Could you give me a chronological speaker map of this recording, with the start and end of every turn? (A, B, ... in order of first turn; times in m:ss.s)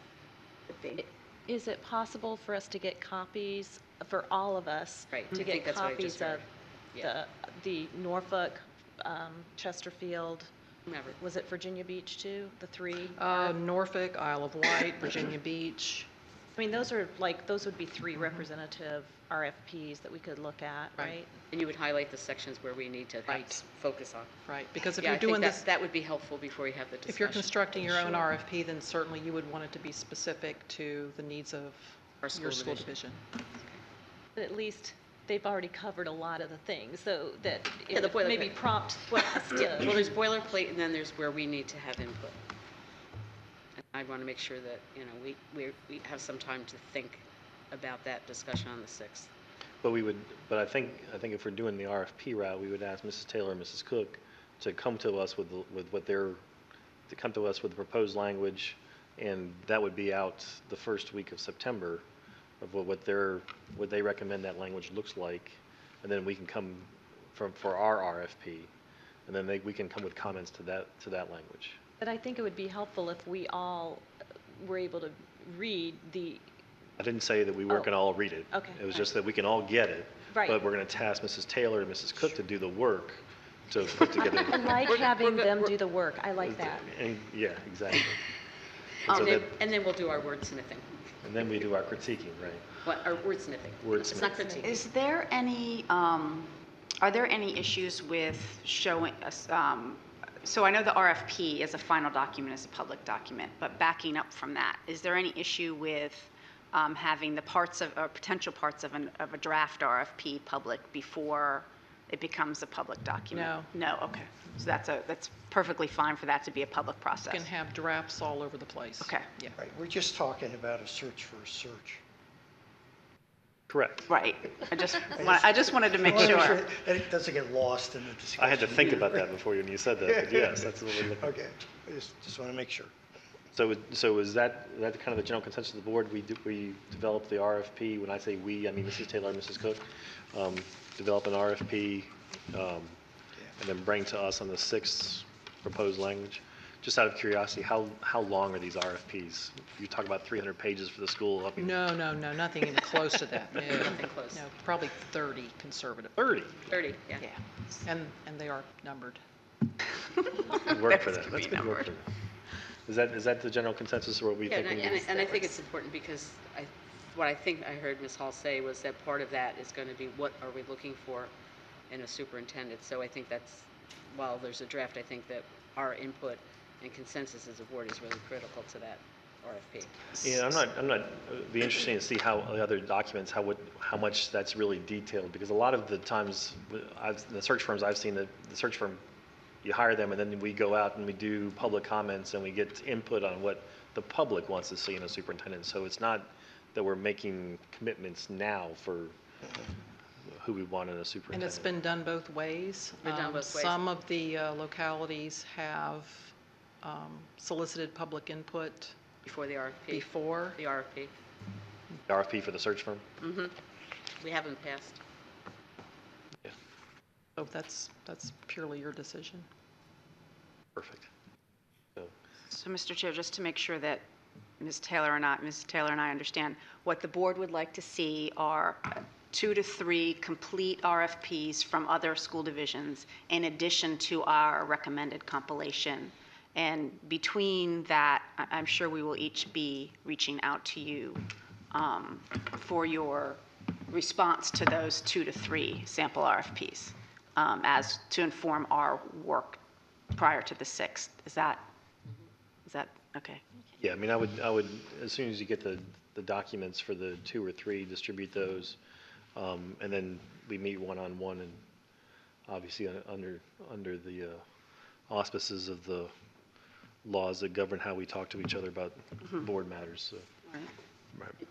0:00.7-0:01.0 A
0:01.0-0:06.4 B
0:05.1-0:07.1 C
0:07.0-0:10.5 B
0:10.9-0:11.2 C
0:11.2-0:13.6 B
0:13.2-0:16.1 D
0:16.6-0:21.3 B
0:21.5-0:24.3 C
0:23.3-0:23.6 D
0:24.5-0:25.6 D
0:25.0-0:28.3 C
0:27.1-0:33.2 D
0:32.2-0:32.9 C
0:34.4-0:40.1 B
0:37.9-0:38.6 C
0:39.1-0:42.4 C
0:43.8-0:49.3 C
0:49.8-0:56.4 E
0:57.1-1:02.0 E
1:02.6-1:08.7 E
1:09.3-1:11.8 E
1:12.0-1:16.4 B
1:17.0-1:24.9 E
1:18.5-1:19.1 B
1:20.3-1:20.6 B
1:24.5-1:26.9 B
1:24.9-1:25.7 C
1:26.4-1:28.3 E
1:29.0-1:29.5 E
1:29.1-1:31.0 C
1:31.2-1:32.7 E
1:32.8-1:34.9 C
1:33.8-1:34.5 E
1:34.6-1:57.5 A
1:53.3-1:53.7 D
1:57.3-1:59.6 D
1:59.0-1:59.3 A
1:59.6-2:02.0 F
2:03.7-2:04.2 E
2:04.1-2:06.6 A
2:05.1-2:09.3 F
2:08.4-2:11.3 E
2:10.0-2:12.9 F
2:13.6-2:23.0 E
2:23.6-2:31.9 E
2:31.6-2:36.6 D
2:33.6-2:34.4 C
2:36.2-2:36.6 E
2:36.7-2:37.2 C
2:37.8-2:39.2 D
2:40.3-2:41.9 A
2:40.5-2:42.1 E
2:42.9-2:45.3 E
2:44.4-2:51.3 C
2:45.0-2:45.5 A
2:51.9-3:00.2 C
3:00.2-3:09.0 E
3:09.6-3:19.2 E
3:20.3-3:21.7 E
3:21.3-3:29.0 D
3:23.0-3:23.8 C
3:29.2-3:31.1 C
3:29.9-3:30.6 D
3:32.1-3:33.0 E
3:33.2-3:33.6 C
3:34.2-3:35.0 C
3:37.4-3:39.5 D
3:40.8-3:41.1 E
3:42.5-3:44.0 A
3:44.6-4:09.6 A
4:10.2-4:11.7 A
4:12.7-4:13.4 A
4:13.8-4:18.8 E
4:19.4-4:21.6 E
4:22.5-4:24.4 E
4:25.1-4:26.1 E
4:27.0-4:30.3 E